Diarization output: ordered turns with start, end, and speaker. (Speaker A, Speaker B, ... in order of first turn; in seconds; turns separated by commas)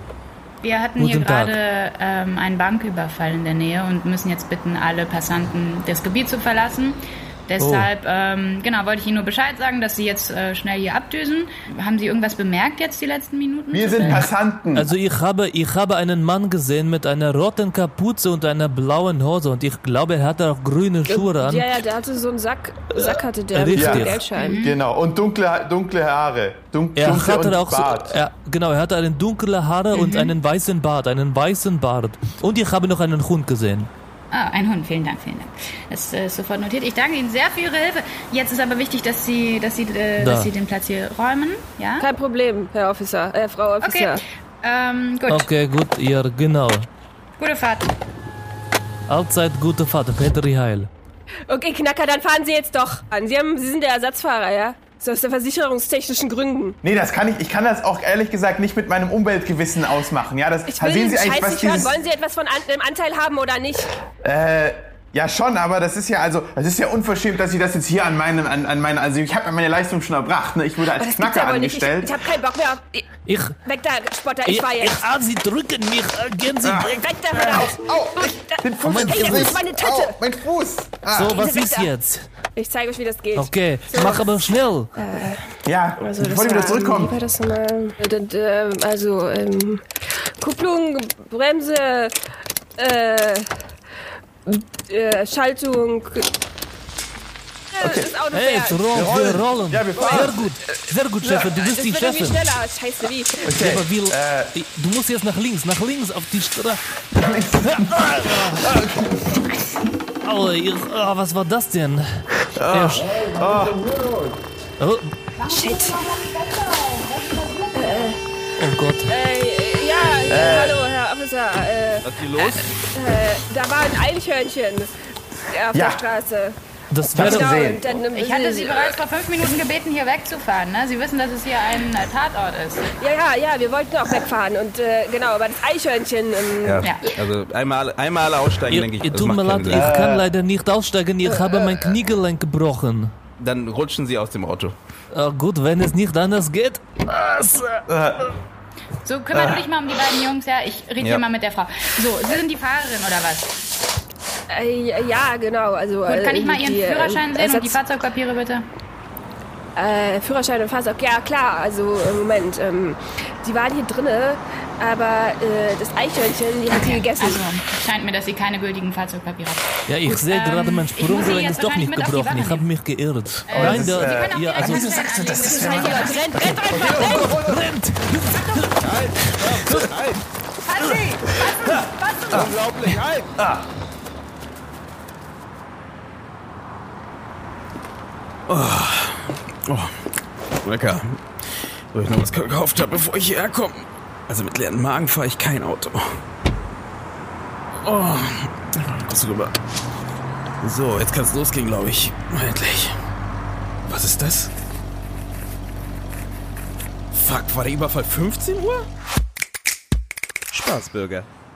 Speaker A: 0.6-14.3, Speaker B: 1.0-1.5, Speaker B: 7.6-7.9, Speaker C: 13.7-14.9, Speaker B: 14.8-21.7, Speaker D: 21.1-24.6, Speaker B: 23.5-24.3, Speaker C: 23.7-28.2, Speaker A: 24.3-24.8, Speaker B: 26.9-33.9, Speaker A: 29.9-30.4, Speaker A: 34.3-42.0, Speaker B: 40.2-40.5, Speaker D: 42.0-44.2, Speaker A: 43.8-45.5, Speaker B: 45.3-46.9, Speaker A: 47.4-47.9, Speaker B: 49.1-50.9, Speaker D: 51.5-56.8, Speaker C: 56.8-62.0, Speaker D: 60.7-63.9, Speaker C: 64.2-72.1, Speaker D: 70.9-73.1, Speaker B: 73.3-73.6, Speaker D: 73.6-75.0, Speaker B: 74.4-77.0, Speaker C: 76.6-81.4, Speaker D: 76.9-77.8, Speaker D: 78.4-80.2, Speaker B: 78.8-79.6, Speaker B: 81.1-82.2, Speaker D: 81.3-81.9, Speaker D: 82.5-84.3, Speaker B: 83.3-84.9, Speaker D: 85.0-85.4, Speaker C: 85.7-87.2, Speaker D: 86.0-89.8, Speaker D: 90.4-92.1, Speaker D: 92.8-93.5, Speaker D: 94.5-96.3, Speaker D: 97.7-98.8, Speaker C: 97.8-98.1, Speaker B: 98.3-102.4, Speaker C: 98.9-100.4, Speaker D: 100.0-100.3, Speaker D: 101.3-103.5, Speaker C: 103.4-104.5, Speaker B: 103.5-108.8, Speaker C: 107.2-109.4, Speaker B: 110.2-113.1, Speaker C: 112.5-113.9, Speaker B: 114.8-115.1, Speaker A: 115.4-118.1, Speaker D: 115.5-116.2, Speaker D: 117.7-118.2, Speaker B: 118.6-119.1, Speaker D: 119.1-124.9, Speaker C: 120.3-120.8, Speaker E: 122.0-122.7, Speaker D: 125.5-126.6, Speaker C: 125.7-126.0, Speaker B: 126.9-127.6, Speaker D: 127.1-129.0, Speaker C: 127.1-127.8, Speaker A: 127.9-132.9, Speaker D: 132.9-136.9, Speaker E: 136.6-140.0, Speaker A: 136.8-137.1, Speaker B: 138.7-143.1, Speaker C: 139.7-140.3, Speaker E: 143.4-144.8, Speaker B: 145.1-147.8, Speaker C: 147.9-148.3, Speaker A: 149.0-153.5, Speaker C: 149.3-149.6, Speaker D: 154.5-157.8, Speaker A: 156.1-158.6, Speaker D: 159.8-167.5, Speaker A: 166.7-172.7, Speaker B: 169.9-174.9, Speaker A: 173.5-176.4, Speaker C: 173.5-177.6, Speaker D: 175.4-177.3, Speaker B: 177.0-179.9, Speaker E: 178.8-180.2, Speaker A: 180.7-182.5, Speaker E: 182.4-183.3, Speaker C: 183.4-183.6, Speaker E: 188.5-189.9, Speaker E: 190.6-191.2, Speaker E: 191.9-196.1, Speaker E: 197.8-199.6, Speaker E: 200.6-202.9, Speaker E: 203.8-204.5, Speaker E: 207.1-208.9, Speaker E: 210.5-211.3